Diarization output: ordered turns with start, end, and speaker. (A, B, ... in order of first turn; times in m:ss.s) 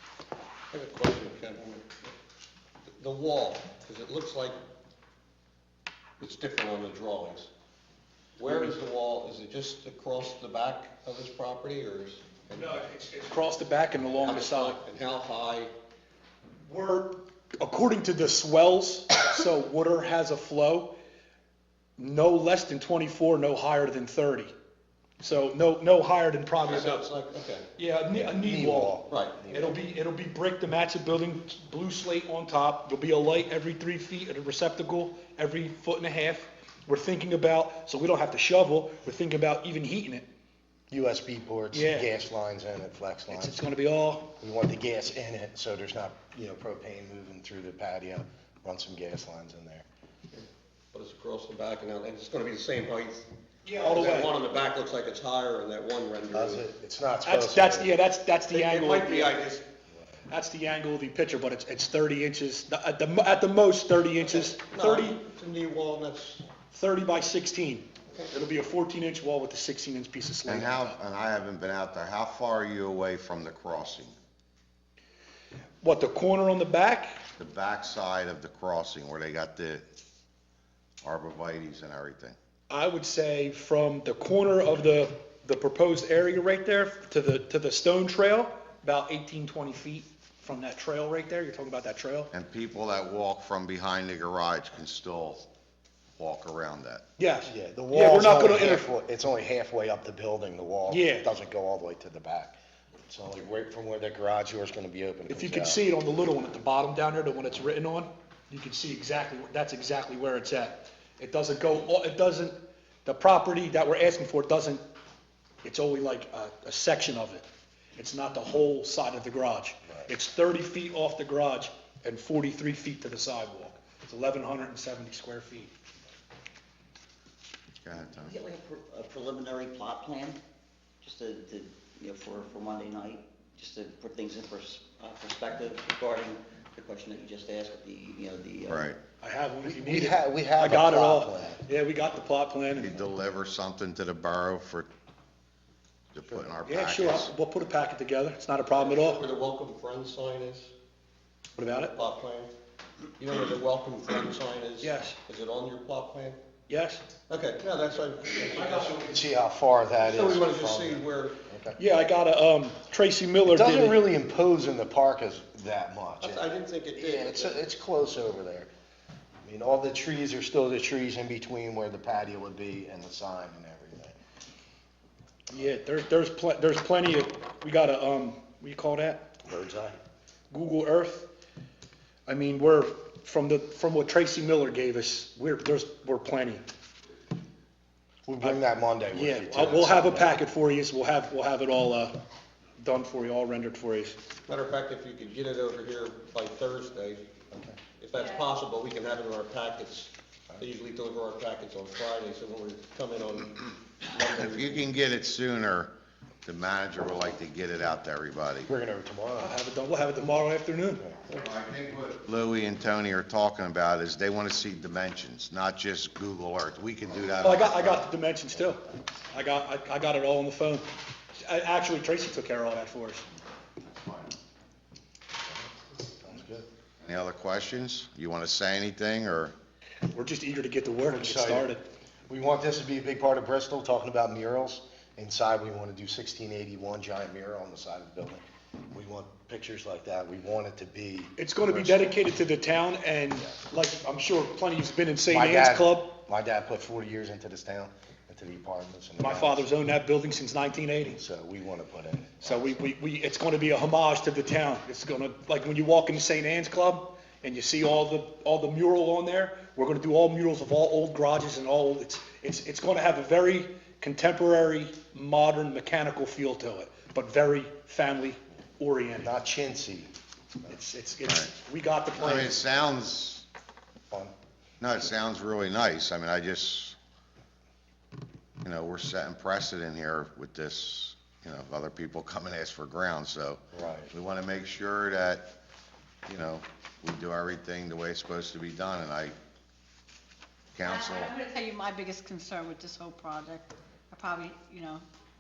0:00.7-0:01.9 A
0:03.0-0:04.6 A
0:06.2-0:07.5 A
0:08.4-0:12.8 A
0:12.6-0:14.8 B
0:14.2-0:15.7 A
0:16.6-0:20.9 B
0:22.0-0:24.5 B
0:25.2-0:27.0 B
0:26.6-0:27.6 A
0:27.8-0:40.3 B
0:28.1-0:29.8 C
0:29.1-0:29.4 A
0:40.9-0:43.6 C
0:41.7-0:42.1 B
0:43.3-0:44.3 B
0:44.4-0:49.8 C
0:50.3-0:56.6 A
0:53.6-0:54.3 B
0:56.3-0:58.0 C
0:57.2-0:59.4 B
0:58.5-0:59.7 A
1:00.3-1:05.2 B
1:04.2-1:06.4 A
1:06.7-1:11.0 B
1:10.4-1:14.1 D
1:15.8-1:17.2 B
1:17.4-1:19.8 D
1:21.0-1:22.4 D
1:22.7-1:32.3 B
1:32.3-1:35.5 D
1:36.2-1:37.0 D
1:37.2-1:38.9 B
1:37.4-1:45.8 C
1:40.9-1:41.3 B
1:45.3-1:54.8 B
1:55.6-2:05.7 B
2:07.8-2:08.4 D
2:08.1-2:10.4 E
2:11.0-2:18.9 E
2:18.7-2:19.0 D
2:19.2-2:23.0 B
2:19.6-2:21.6 C
2:22.7-2:24.9 D
2:26.1-2:27.3 D
2:26.6-2:29.2 B
2:28.8-2:30.7 A
2:31.6-2:31.9 B
2:31.7-2:32.5 A
2:33.2-2:36.4 A
2:34.8-2:35.2 B
2:36.7-2:37.0 B
2:37.3-2:39.0 A
2:38.6-2:39.0 B
2:39.0-2:41.8 C
2:40.0-2:41.4 A
2:41.8-2:44.0 B
2:43.4-2:48.7 C
2:46.2-2:47.6 A
2:49.4-2:54.2 C
2:55.5-2:59.3 B
2:59.4-3:00.0 C
3:00.5-3:01.3 B
3:02.2-3:06.6 B
3:08.2-3:10.4 C
3:09.1-3:12.2 B
3:12.8-3:14.2 B
3:14.5-3:17.3 A
3:17.5-3:17.8 C
3:18.0-3:24.9 A
3:24.3-3:28.7 D
3:28.6-3:29.6 C
3:29.4-3:31.0 B
3:31.3-3:38.1 D
3:37.4-3:43.2 B
3:43.9-3:44.3 D
3:45.5-3:46.6 C
3:47.0-3:49.5 D
3:50.1-3:51.8 B
3:51.1-3:51.7 C
3:52.3-4:02.2 C
4:01.4-4:06.1 B
4:05.3-4:09.7 C
4:09.2-4:11.2 B
4:11.0-4:12.8 C
4:12.4-4:29.3 B
4:29.2-4:30.1 C
4:30.7-4:32.6 B
4:31.2-4:31.5 D
4:32.1-4:33.4 D
4:34.8-4:37.0 D
4:38.6-4:45.5 D
4:43.7-4:44.1 C
4:46.2-4:49.4 D
4:50.7-4:51.3 D
4:50.8-4:55.0 F